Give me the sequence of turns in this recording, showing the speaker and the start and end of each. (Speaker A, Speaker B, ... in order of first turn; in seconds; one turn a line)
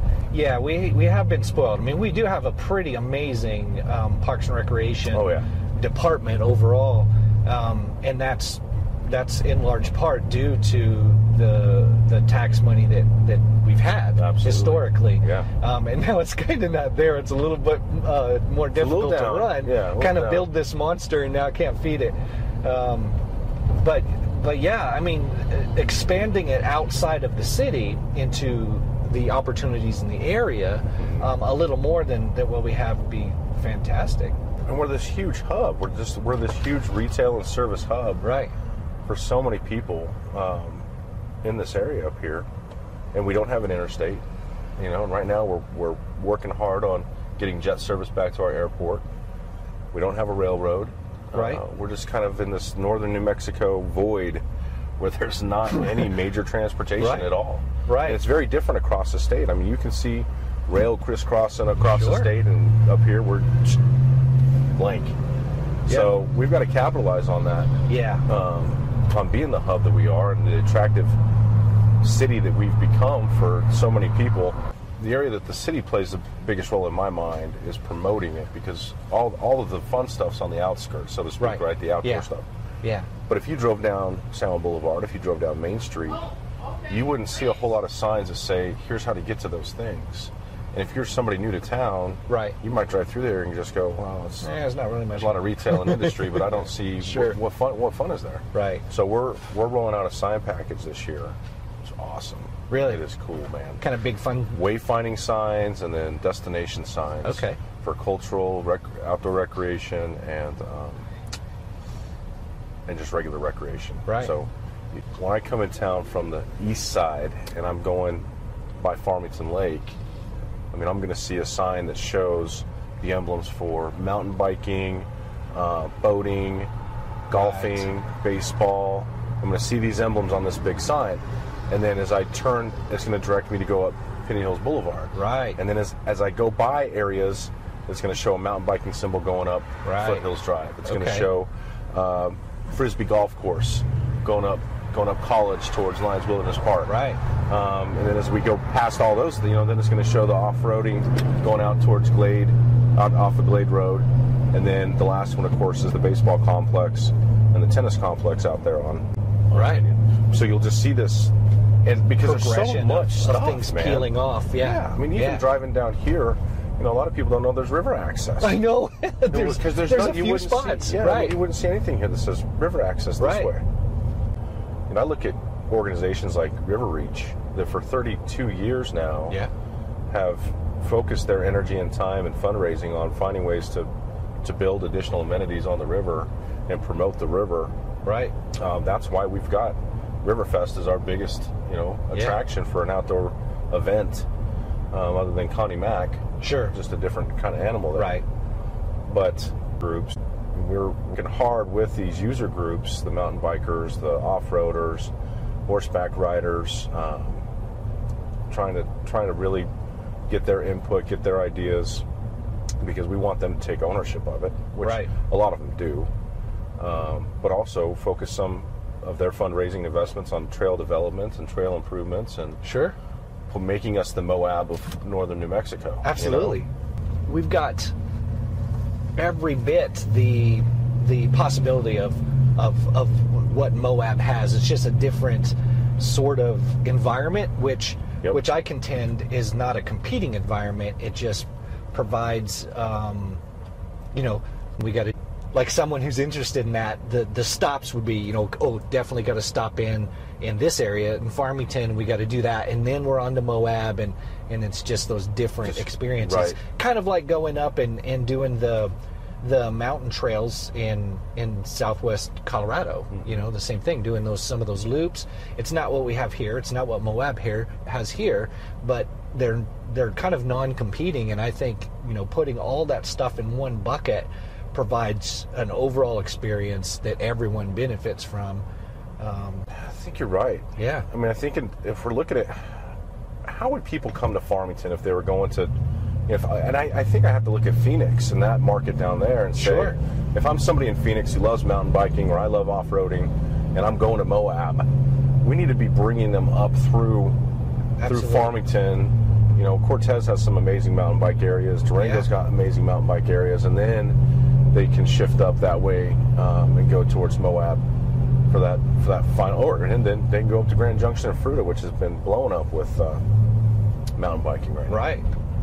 Speaker A: 0.3-23.2
Speaker B: 5.1-5.5
Speaker B: 14.2-15.5
Speaker B: 18.8-20.5
Speaker A: 23.7-34.4
Speaker B: 31.0-31.3
Speaker B: 34.7-38.2
Speaker A: 38.2-38.5
Speaker B: 39.1-40.9
Speaker B: 41.4-42.5
Speaker B: 43.1-44.2
Speaker B: 44.8-49.0
Speaker B: 49.9-54.4
Speaker A: 51.4-51.6
Speaker B: 55.0-63.8
Speaker A: 57.0-57.3
Speaker A: 57.9-58.2
Speaker A: 61.9-62.3
Speaker B: 64.7-65.2
Speaker A: 65.9-66.1
Speaker B: 65.9-71.2
Speaker A: 67.9-68.3
Speaker B: 72.0-82.5
Speaker A: 81.4-82.3
Speaker A: 82.8-83.1
Speaker B: 83.3-86.3
Speaker B: 86.9-94.5
Speaker A: 92.3-92.6
Speaker A: 94.4-97.4
Speaker B: 95.1-103.8
Speaker A: 98.5-98.8
Speaker A: 102.7-103.0
Speaker A: 103.8-104.6
Speaker B: 104.5-111.1
Speaker A: 107.2-107.6
Speaker B: 112.9-118.3
Speaker A: 114.1-114.3
Speaker B: 118.8-120.0
Speaker B: 120.7-126.7
Speaker B: 127.3-146.9
Speaker A: 127.3-127.9
Speaker A: 135.1-135.6
Speaker A: 139.8-140.3
Speaker A: 140.8-141.3
Speaker A: 146.9-147.2
Speaker B: 147.5-168.6
Speaker A: 159.5-159.8
Speaker A: 162.2-165.4
Speaker A: 168.4-171.4
Speaker B: 169.3-173.7
Speaker A: 173.2-173.5
Speaker B: 174.9-179.4
Speaker B: 180.1-183.9
Speaker B: 184.4-187.7
Speaker A: 188.1-188.3
Speaker B: 188.5-194.3
Speaker A: 192.1-192.4
Speaker B: 194.9-198.2
Speaker A: 196.4-196.8
Speaker A: 197.9-198.2
Speaker B: 199.1-205.1
Speaker B: 205.7-207.5
Speaker B: 208.5-209.7
Speaker B: 210.3-212.1
Speaker B: 212.8-216.1
Speaker A: 214.8-215.1
Speaker B: 216.8-222.6
Speaker A: 222.6-222.9
Speaker B: 223.5-226.7
Speaker A: 226.0-226.7
Speaker A: 227.3-227.9
Speaker A: 229.2-243.4
Speaker A: 244.1-278.6
Speaker B: 255.6-256.6
Speaker B: 263.1-263.4
Speaker A: 279.2-279.7
Speaker B: 279.7-282.9
Speaker A: 280.8-281.1
Speaker B: 283.4-285.7
Speaker B: 286.3-294.9
Speaker A: 289.6-290.0
Speaker B: 295.4-297.4
Speaker A: 298.0-298.6
Speaker B: 298.1-304.2
Speaker A: 302.0-302.3
Speaker B: 304.7-307.8
Speaker B: 308.5-313.2
Speaker B: 314.1-315.1
Speaker A: 314.9-315.3